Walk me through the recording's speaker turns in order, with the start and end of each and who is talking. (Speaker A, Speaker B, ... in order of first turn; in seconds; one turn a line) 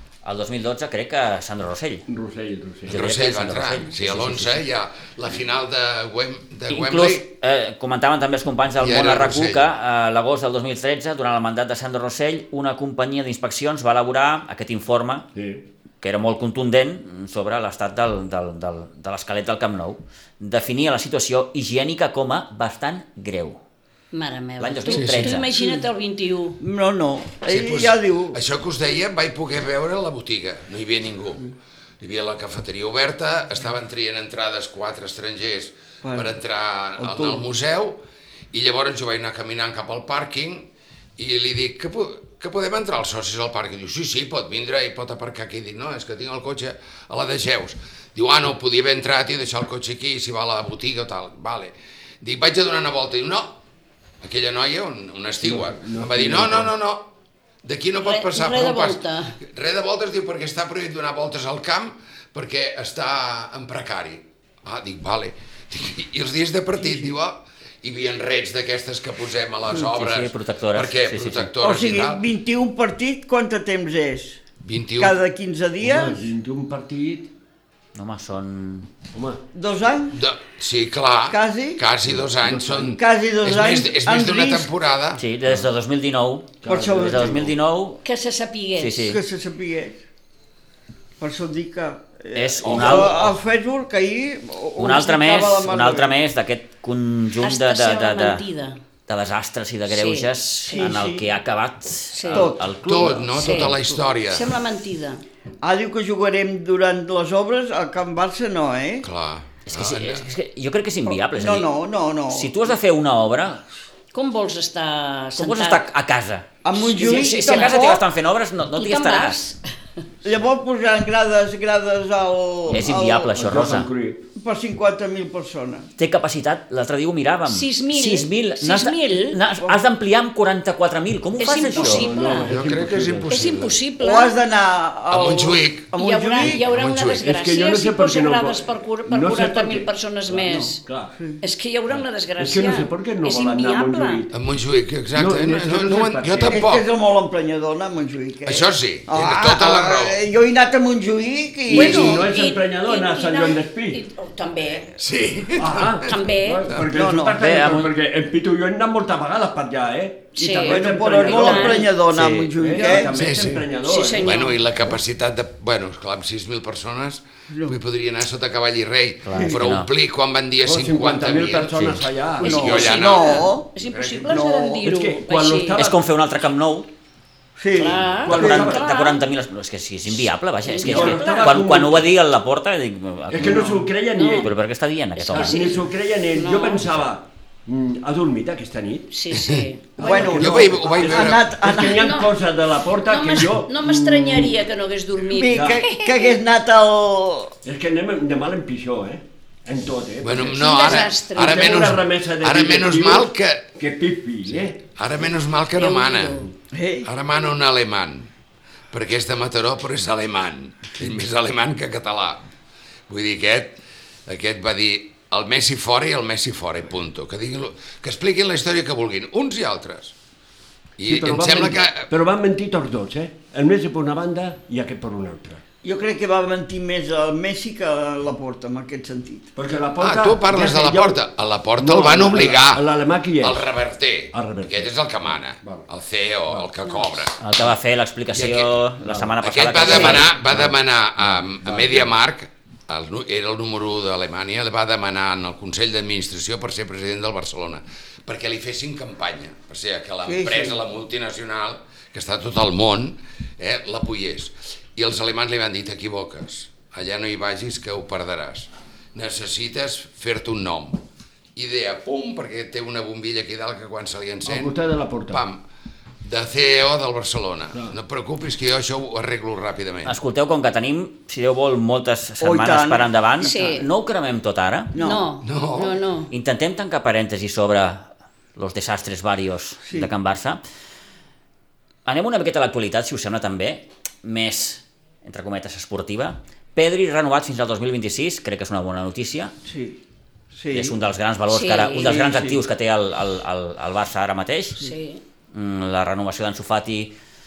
Speaker A: 0.2-2.0
Speaker B: 2.1-3.0
Speaker A: 2.9-4.6
Speaker C: 2.9-7.2
Speaker A: 6.7-15.3
Speaker C: 8.8-9.7
Speaker B: 15.3-15.6
Speaker A: 16.0-23.6
Speaker D: 24.1-26.6
Speaker A: 24.6-25.5
Speaker C: 24.9-25.4
Speaker E: 26.6-28.4
Speaker C: 27.4-31.5
Speaker C: 32.0-38.0
Speaker E: 36.0-36.4
Speaker E: 37.0-37.4
Speaker C: 38.5-53.6
Speaker C: 54.2-57.1
Speaker B: 55.4-56.8
Speaker C: 57.6-72.2
Speaker D: 58.0-59.4
Speaker A: 69.7-71.5
Speaker E: 71.6-74.4
Speaker C: 74.6-75.2
Speaker E: 75.0-76.2
Speaker B: 75.8-77.3
Speaker A: 77.9-78.9
Speaker B: 79.1-79.4
Speaker E: 79.5-80.1
Speaker C: 80.1-85.2
Speaker E: 81.3-81.8
Speaker B: 82.0-83.0
Speaker E: 83.0-84.7
Speaker A: 85.2-88.0
Speaker B: 86.6-87.5
Speaker E: 86.7-87.4
Speaker D: 88.0-89.0
Speaker A: 88.8-89.2
Speaker E: 89.0-90.0
Speaker E: 91.2-96.1
Speaker A: 92.3-93.3
Speaker C: 92.6-93.3
Speaker A: 94.8-98.4
Speaker D: 97.4-98.8
Speaker A: 99.1-103.6
Speaker D: 99.9-101.0
Speaker E: 100.7-101.3
Speaker D: 102.1-102.5
Speaker E: 102.3-104.0
Speaker C: 102.8-104.5
Speaker D: 103.4-103.8
Speaker D: 104.3-105.2
Speaker E: 105.6-109.0
Speaker C: 109.0-110.3
Speaker A: 109.7-111.7
Speaker E: 111.1-112.5
Speaker A: 112.3-113.6
Speaker D: 114.1-115.8
Speaker A: 115.4-119.4
Speaker E: 116.6-118.0
Speaker D: 116.8-117.9
Speaker D: 118.7-119.6
Speaker E: 120.2-123.4
Speaker A: 122.7-123.9
Speaker B: 122.7-124.2
Speaker E: 124.3-125.9
Speaker A: 126.0-132.1
Speaker D: 127.5-129.4
Speaker D: 131.4-132.5
Speaker B: 131.8-133.4
Speaker C: 132.4-133.8
Speaker D: 133.3-134.4
Speaker E: 134.0-136.6
Speaker C: 135.1-135.9
Speaker D: 135.9-140.8
Speaker C: 136.4-137.2
Speaker B: 137.2-141.1
Speaker D: 141.4-144.2
Speaker B: 141.9-144.3
Speaker C: 144.3-146.8
Speaker B: 145.1-146.6
Speaker E: 146.5-152.3
Speaker C: 148.4-150.2
Speaker B: 151.7-154.0
Speaker D: 151.7-154.9
Speaker C: 154.9-156.1
Speaker B: 155.5-161.9
Speaker D: 156.0-156.7
Speaker E: 156.8-157.4
Speaker A: 157.4-157.9
Speaker D: 160.3-161.9
Speaker E: 160.6-163.1
Speaker A: 162.1-163.0
Speaker B: 162.6-164.4
Speaker C: 163.1-163.7
Speaker D: 163.8-164.6
Speaker C: 164.2-174.2
Speaker A: 169.2-169.9
Speaker B: 170.6-172.9
Speaker E: 172.4-173.7
Speaker D: 172.4-175.9
Speaker E: 174.2-174.8
Speaker B: 174.8-176.0
Speaker A: 175.8-176.9
Speaker E: 177.6-178.4
Speaker D: 177.7-179.2
Speaker B: 178.2-178.8
Speaker A: 178.3-185.6
Speaker D: 180.6-181.7
Speaker B: 180.8-182.1
Speaker B: 183.3-184.5
Speaker D: 184.1-184.5
Speaker D: 185.2-186.9
Speaker B: 185.3-189.1
Speaker D: 189.1-190.0
Speaker C: 189.3-191.5
Speaker B: 189.9-194.6
Speaker E: 190.0-192.1
Speaker D: 191.9-192.4
Speaker D: 193.0-196.3
Speaker E: 195.4-197.5
Speaker B: 195.4-195.9
Speaker B: 197.6-204.8
Speaker C: 200.2-203.7
Speaker D: 200.5-201.8
Speaker C: 204.9-206.4
Speaker D: 205.7-206.5
Speaker E: 206.7-207.1
Speaker C: 207.0-208.3
Speaker C: 208.9-212.4
Speaker C: 213.1-213.8
Speaker C: 214.3-220.1
Speaker C: 221.0-222.1
Speaker B: 221.1-225.6
Speaker E: 225.8-229.5
Speaker B: 229.5-231.2
Speaker C: 230.0-232.9
Speaker B: 231.8-233.7
Speaker C: 233.4-237.4
Speaker B: 234.3-235.8
Speaker A: 237.4-240.3
Speaker C: 238.3-238.8
Speaker B: 239.0-242.1
Speaker C: 239.4-261.0
Speaker D: 239.9-240.1
Speaker E: 250.2-250.8
Speaker C: 261.6-265.6
Speaker B: 264.4-265.4
Speaker C: 266.2-270.1
Speaker A: 270.0-274.9
Speaker E: 272.4-273.8
Speaker D: 273.4-273.9
Speaker E: 274.9-275.2
Speaker D: 274.9-276.3
Speaker C: 275.4-276.0
Speaker A: 276.3-280.6
Speaker A: 282.1-289.5
Speaker E: 289.7-290.0
Speaker E: 290.5-291.0
Speaker A: 290.7-294.8
Speaker D: 291.5-292.4
Speaker E: 292.1-292.5
Speaker D: 294.8-295.2
Speaker A: 295.5-297.1